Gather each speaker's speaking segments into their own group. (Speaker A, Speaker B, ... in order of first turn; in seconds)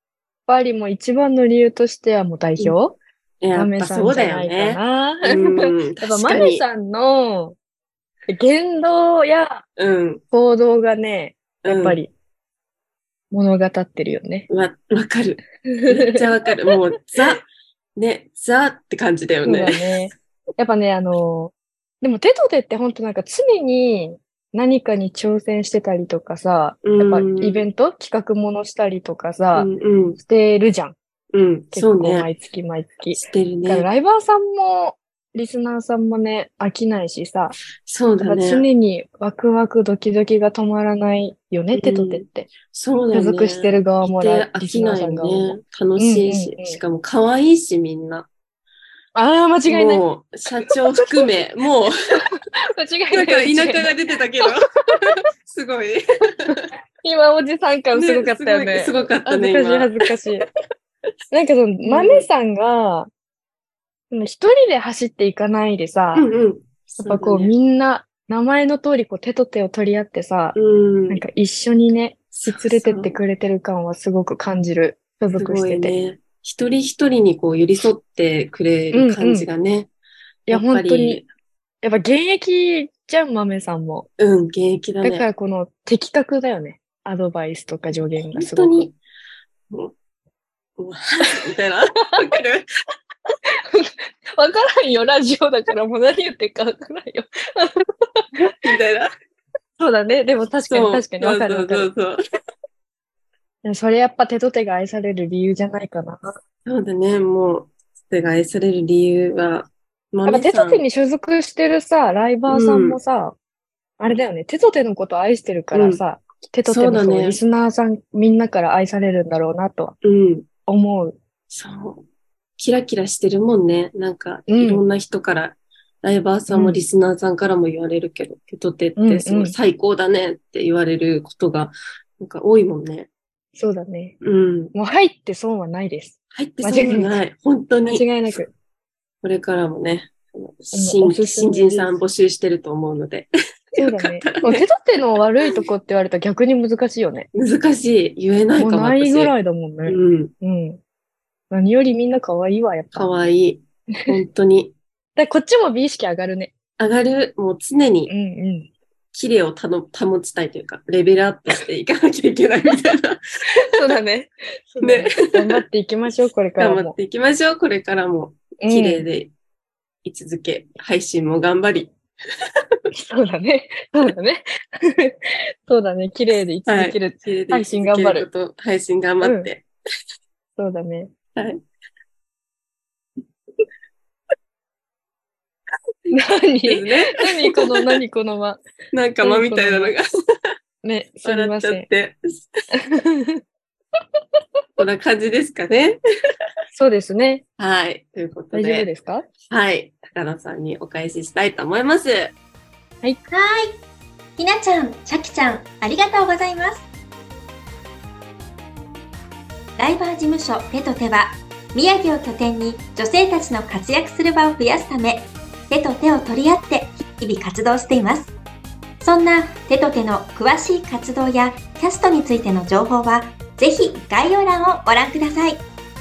Speaker A: 0.5-3.0, 3.5-7.6, 8.3-9.7, 10.3-12.1, 13.3-14.5, 15.7-16.2, 19.4-31.0, 31.7-37.6, 38.2-42.5, 43.1-46.8, 49.1-50.0, 51.0-51.3, 52.2-54.5, 56.5-60.5, 61.3-63.1, 64.1-66.3, 67.0-70.6, 71.1-76.0, 78.9-79.5, 80.5-81.2, 81.8-84.1, 85.0-88.9, 93.7-98.3, 99.8-101.9, 103.6-106.3, 110.3-113.3, 114.0-120.0, 120.7-121.2, 124.5-124.8, 126.5-126.8, 129.0-129.6, 133.6-134.2, 134.7-137.2, 137.8-138.5, 140.7-142.0, 143.8-147.3, 148.6-150.8, 151.5-153.1, 155.2-156.5, 158.1-158.7, 163.6-167.0, 168.6-169.1, 173.0-178.3, 179.2-179.5, 180.6-181.1, 186.1-188.6, 189.2-189.9, 190.8-191.9, 192.7-193.4, 196.7-197.4, 198.5-199.3
Speaker B: 3.4-6.7, 9.8-10.2, 11.7-12.0, 14.5-17.4, 18.0-20.0, 26.8-27.7, 29.5-30.2, 31.3-32.3, 33.1-33.9, 37.9-38.7, 41.7-48.3, 49.7-51.9, 53.1-56.7, 57.9-60.4, 61.9-62.3, 66.2-67.5, 70.5-71.2, 72.3-73.2, 75.4-79.9, 80.5-81.3, 84.2-85.3, 88.3-89.0, 90.8-92.7, 98.4-99.1, 100.7-102.2, 106.7-110.8, 112.5-113.0, 115.7-116.0, 116.7-117.4, 120.0-120.5, 121.5-122.0, 122.6-133.1, 134.2-134.7, 136.3-138.4, 139.2-144.7, 147.3-149.3, 149.9-150.3, 152.9-154.7, 156.8-158.1, 159.1-163.9, 164.8-165.6, 166.6-169.3, 170.1-171.9, 176.7-179.7, 186.6-187.9, 188.9-190.1, 191.2-192.5, 194.8-196.0, 197.6-198.9, 199.5-202.3
Speaker C: 203.3-203.8, 204.4-206.9, 209.8-218.3, 219.0-225.7